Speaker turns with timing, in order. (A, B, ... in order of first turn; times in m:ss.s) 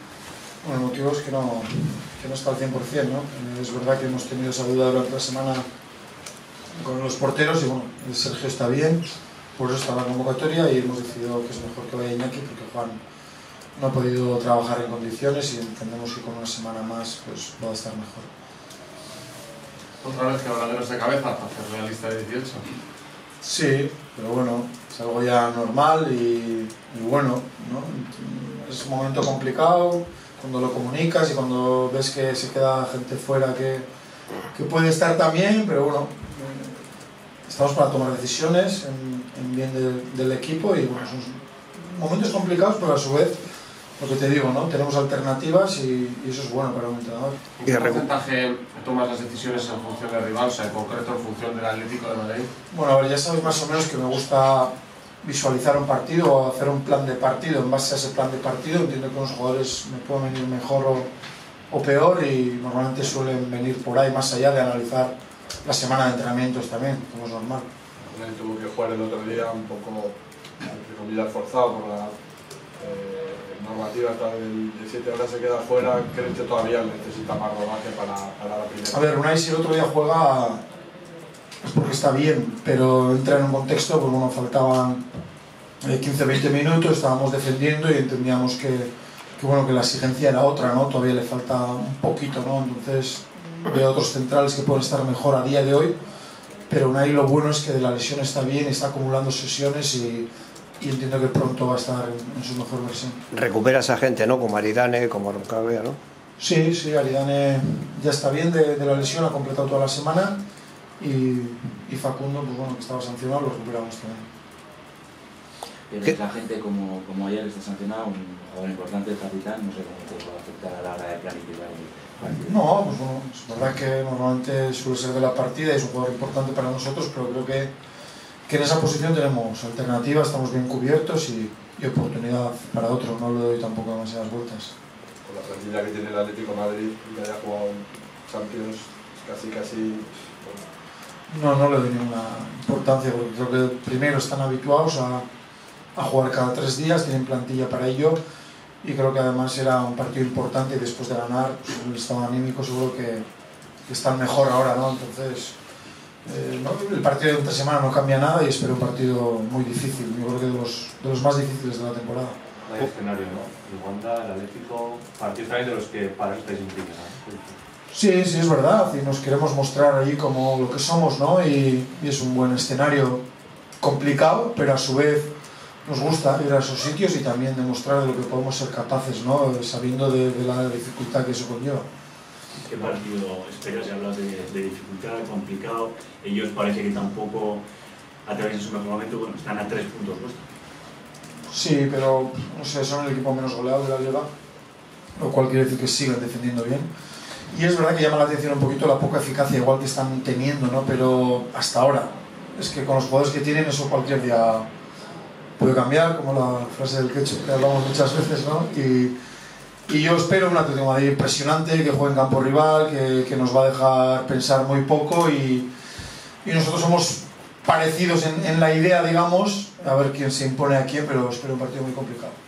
0:00.6-0:05.6 A
0:06.8-0:09.0 A
0:09.6-0:13.0 A
0:13.8-0:18.3 A
0:20.0-0:22.6 B
0:23.4-0:33.9 A
0:34.5-0:36.8 A
0:37.5-0:43.4 A
0:44.0-0:47.4 A
0:47.6-0:52.5 B
0:47.6-0:48.1 C
0:52.7-1:01.1 A
1:01.7-1:07.7 A
1:08.1-1:12.1 D
1:12.8-1:19.0 D
1:18.9-1:20.6 A
1:21.6-1:25.0 A
1:25.8-1:36.0 A
1:36.7-1:40.3 A
1:40.8-1:43.2 A
1:43.3-1:46.0 C
1:46.4-1:50.4 A
1:51.0-1:54.3 A
1:55.9-2:02.6 E
2:02.5-2:07.7 A
2:08.5-2:14.7 A
2:15.2-2:20.6 D
2:21.3-2:25.2 A
2:26.0-2:28.2 A
2:28.8-2:33.2 A
2:33.9-2:35.6 A
2:36.2-2:42.4 A
2:42.7-2:47.6 F
2:47.9-2:53.2 A
2:53.8-2:55.3 A
2:55.9-3:01.9 A
3:02.6-3:07.6 G
3:08.3-3:10.5 G
3:11.5-3:14.3 A
3:15.2-3:16.9 A
3:17.5-3:24.7 A
3:25.6-3:29.1 A
3:29.9-3:35.7 A
3:36.4-3:42.4 A